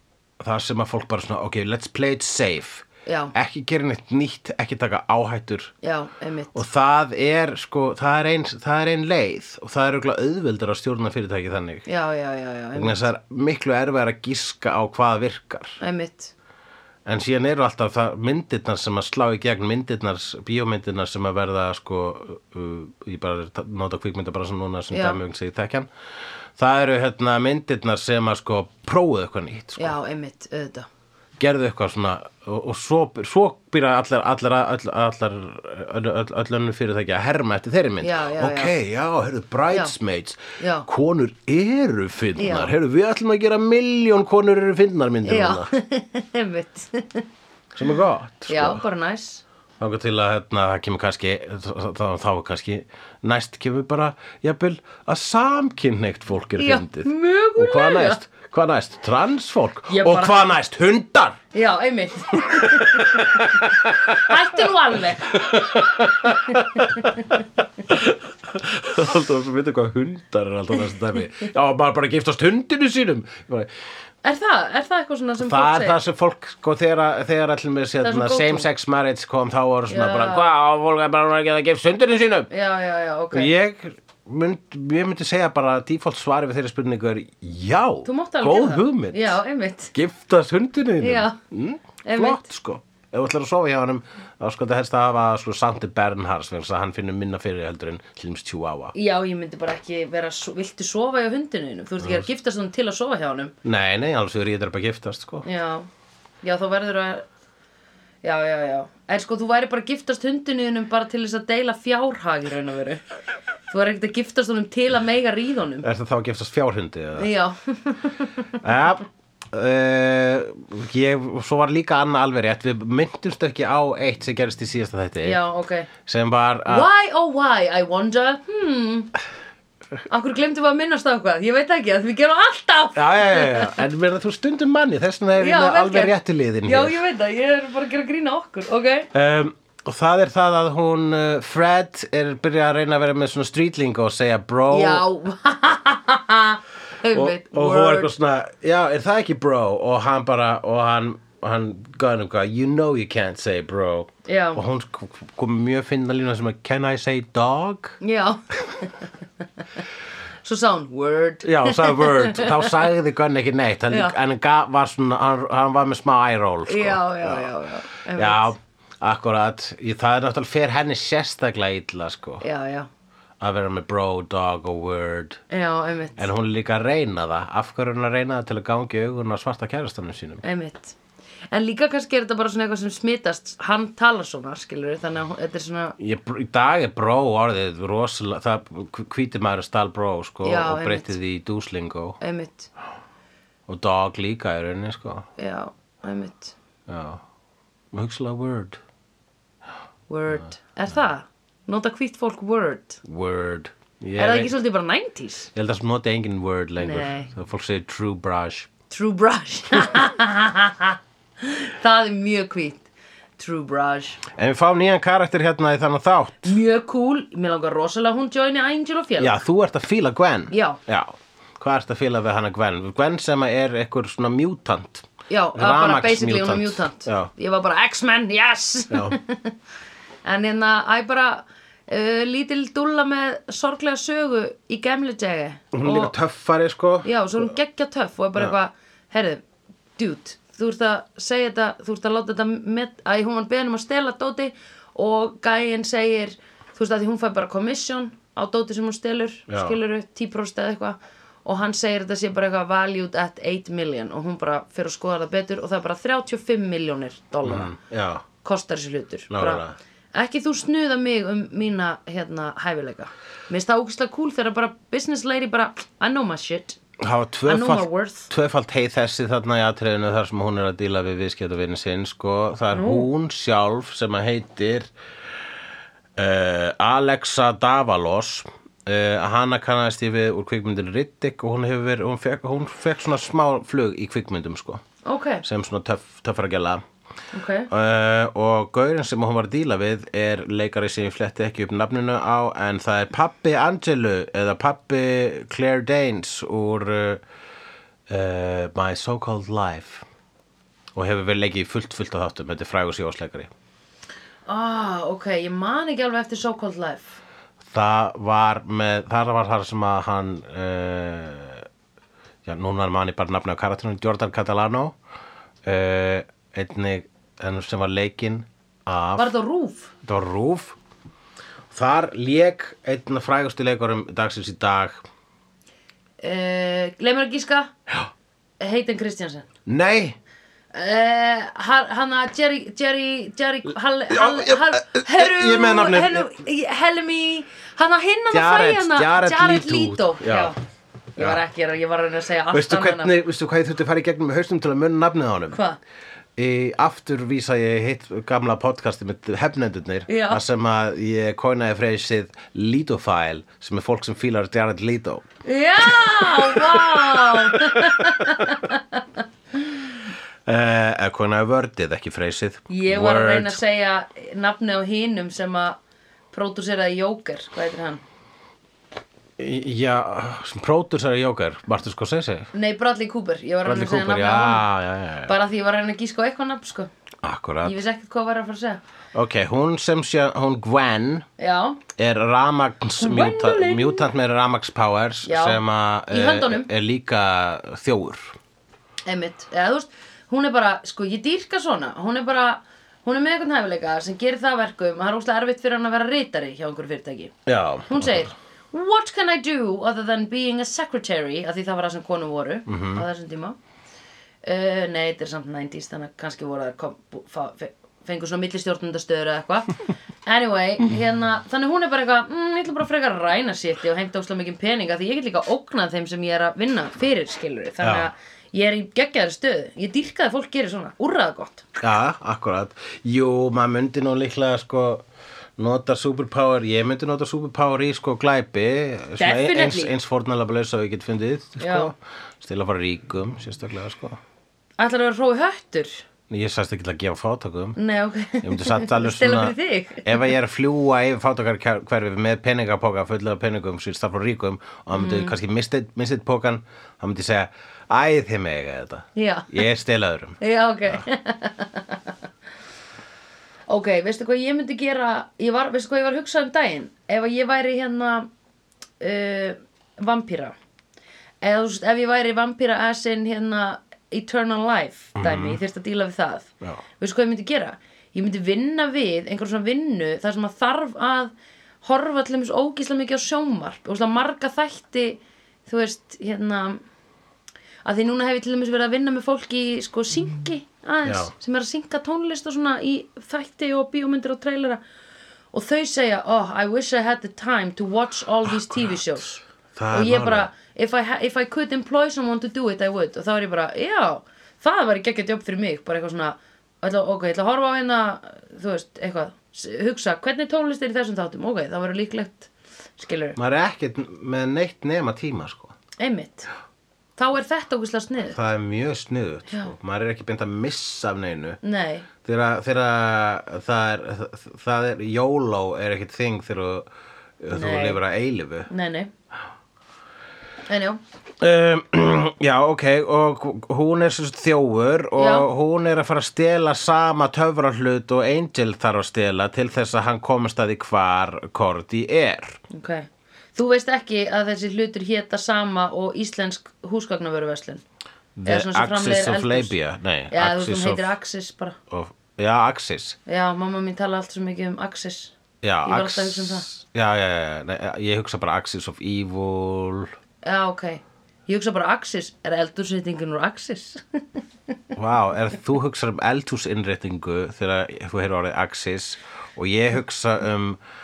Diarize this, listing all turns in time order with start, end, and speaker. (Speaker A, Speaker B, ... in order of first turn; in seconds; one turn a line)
Speaker A: 0.4-5.7
Speaker B: 3.0-3.3
Speaker B: 5.8-6.6
Speaker A: 6.5-11.9
Speaker B: 11.9-13.1
Speaker A: 12.8-15.8
Speaker B: 15.8-16.3
Speaker A: 17.1-25.9
Speaker B: 24.9-25.2
Speaker A: 26.6-30.0
Speaker B: 29.8-30.9
Speaker A: 31.4-45.7
Speaker B: 38.0-38.8
Speaker B: 40.6-40.9
Speaker B: 42.4-42.7
Speaker B: 45.2-47.3
Speaker A: 47.8-48.8
Speaker B: 48.5-49.4
Speaker A: 49.8-61.4
Speaker B: 56.5-58.2
Speaker B: 59.9-60.5
Speaker B: 61.5-63.5
Speaker A: 62.3-64.7
Speaker B: 64.1-65.4
Speaker A: 65.2-73.7
Speaker B: 66.3-67.3
Speaker B: 74.2-76.0
Speaker A: 75.4-82.5
Speaker B: 78.0-78.7
Speaker B: 79.9-80.5
Speaker B: 82.5-83.5
Speaker A: 83.3-89.4
Speaker B: 88.0-89.9
Speaker A: 89.9-98.9
Speaker B: 91.0-91.4
Speaker B: 92.0-92.5
Speaker B: 98.9-103.5
Speaker A: 102.0-102.2
Speaker A: 103.6-105.4
Speaker B: 105.4-105.9
Speaker B: 106.4-107.2
Speaker B: 108.2-113.0
Speaker B: 113.7-115.9
Speaker A: 115.8-117.3
Speaker B: 117.1-118.6
Speaker A: 118.6-125.4
Speaker B: 125.2-125.9
Speaker A: 126.0-126.9
Speaker B: 126.7-129.1
Speaker B: 130.1-133.8
Speaker A: 132.9-137.0
Speaker B: 135.4-139.1
Speaker A: 139.1-145.0
Speaker B: 144.7-148.1
Speaker A: 147.1-158.0
Speaker B: 154.2-154.6
Speaker B: 158.0-159.1
Speaker B: 160.4-162.8
Speaker A: 161.4-167.6
Speaker B: 163.9-164.1
Speaker B: 166.7-168.5
Speaker A: 168.1-172.4
Speaker B: 172.4-172.9
Speaker A: 173.4-175.4
Speaker B: 175.5-176.3
Speaker A: 176.2-180.4
Speaker B: 180.4-181.0
Speaker B: 181.5-185.9
Speaker A: 186.0-192.2
Speaker B: 190.4-191.2
Speaker B: 192.2-192.7
Speaker A: 193.7-195.3
Speaker B: 195.4-196.5
Speaker A: 196.9-197.2
Speaker A: 197.9-198.8
Speaker B: 200.1-203.0
Speaker A: 203.0-204.5
Speaker B: 204.2-205.5
Speaker A: 205.5-208.7
Speaker B: 206.8-207.3
Speaker B: 208.9-212.9
Speaker B: 213.4-214.2
Speaker A: 214.3-216.6
Speaker B: 216.4-219.4
Speaker A: 219.2-227.3
Speaker B: 220.5-220.8
Speaker B: 225.3-229.6
Speaker A: 228.9-229.2
Speaker B: 230.2-236.1
Speaker A: 235.7-237.5
Speaker B: 237.0-239.4
Speaker B: 240.0-257.7
Speaker A: 249.5-249.8
Speaker A: 257.4-258.2
Speaker B: 258.4-266.8
Speaker A: 259.3-259.8
Speaker A: 267.0-274.9
Speaker B: 267.5-268.3
Speaker B: 272.7-273.1
Speaker A: 276.1-284.8
Speaker B: 285.1-285.4
Speaker A: 285.4-286.8
Speaker B: 287.3-287.7
Speaker A: 287.7-297.2
Speaker A: 298.1-300.1
Speaker A: 300.9-303.5
Speaker B: 304.5-307.2
Speaker A: 307.7-311.7
Speaker A: 312.4-314.9
Speaker A: 315.6-319.3
Speaker B: 319.1-319.9
Speaker A: 320.0-320.8
Speaker A: 321.7-325.0
Speaker B: 326.2-327.7
Speaker B: 328.6-329.5
Speaker A: 329.6-330.2
Speaker B: 330.7-340.6
Speaker A: 334.1-336.3
Speaker A: 338.3-340.5
Speaker B: 341.1-343.1
Speaker A: 342.5-345.6
Speaker B: 345.5-345.8
Speaker A: 346.4-355.2
Speaker B: 350.1-350.4
Speaker B: 355.4-359.2
Speaker A: 355.8-358.4
Speaker A: 360.4-363.6
Speaker B: 362.7-365.8
Speaker B: 366.3-368.0
Speaker A: 369.4-372.5
Speaker B: 372.5-374.6
Speaker A: 373.6-375.4
Speaker B: 375.2-376.9
Speaker A: 377.2-377.8
Speaker B: 377.6-378.8
Speaker A: 379.1-381.2
Speaker B: 381.4-381.8
Speaker A: 381.9-388.4
Speaker B: 383.0-384.1
Speaker B: 385.2-386.7
Speaker B: 389.1-397.4
Speaker A: 397.4-398.3
Speaker B: 397.9-403.6
Speaker A: 402.7-403.1
Speaker B: 404.4-421.7
Speaker A: 417.8-418.1
Speaker A: 421.8-425.1
Speaker A: 425.6-434.2
Speaker B: 429.2-429.9
Speaker B: 431.6-431.9
Speaker B: 434.8-436.0
Speaker A: 436.3-437.8
Speaker B: 437.8-440.3
Speaker A: 438.4-451.1
Speaker B: 444.9-445.4
Speaker B: 449.1-449.6
Speaker B: 450.4-452.1
Speaker B: 453.7-458.3
Speaker B: 459.0-460.6
Speaker B: 461.4-471.3
Speaker A: 465.2-465.6
Speaker B: 471.8-476.8
Speaker B: 477.8-484.8
Speaker A: 481.1-481.3
Speaker B: 485.5-489.4
Speaker A: 488.5-489.0
Speaker A: 489.7-490.5
Speaker B: 489.9-503.4
Speaker A: 503.4-505.7
Speaker B: 506.0-506.5
Speaker B: 507.2-508.4
Speaker A: 508.3-511.6
Speaker B: 511.6-512.1
Speaker A: 512.2-516.9
Speaker A: 517.4-518.7
Speaker B: 517.5-518.0
Speaker B: 518.7-519.1
Speaker B: 520.7-521.0
Speaker A: 521.4-532.6
Speaker B: 525.2-525.5
Speaker B: 532.7-537.8
Speaker A: 538.4-541.1
Speaker B: 538.5-539.8
Speaker B: 540.3-541.8
Speaker A: 541.9-543.2
Speaker B: 543.3-545.3
Speaker A: 545.6-550.1
Speaker B: 545.9-546.7
Speaker B: 550.4-554.2
Speaker A: 554.9-560.8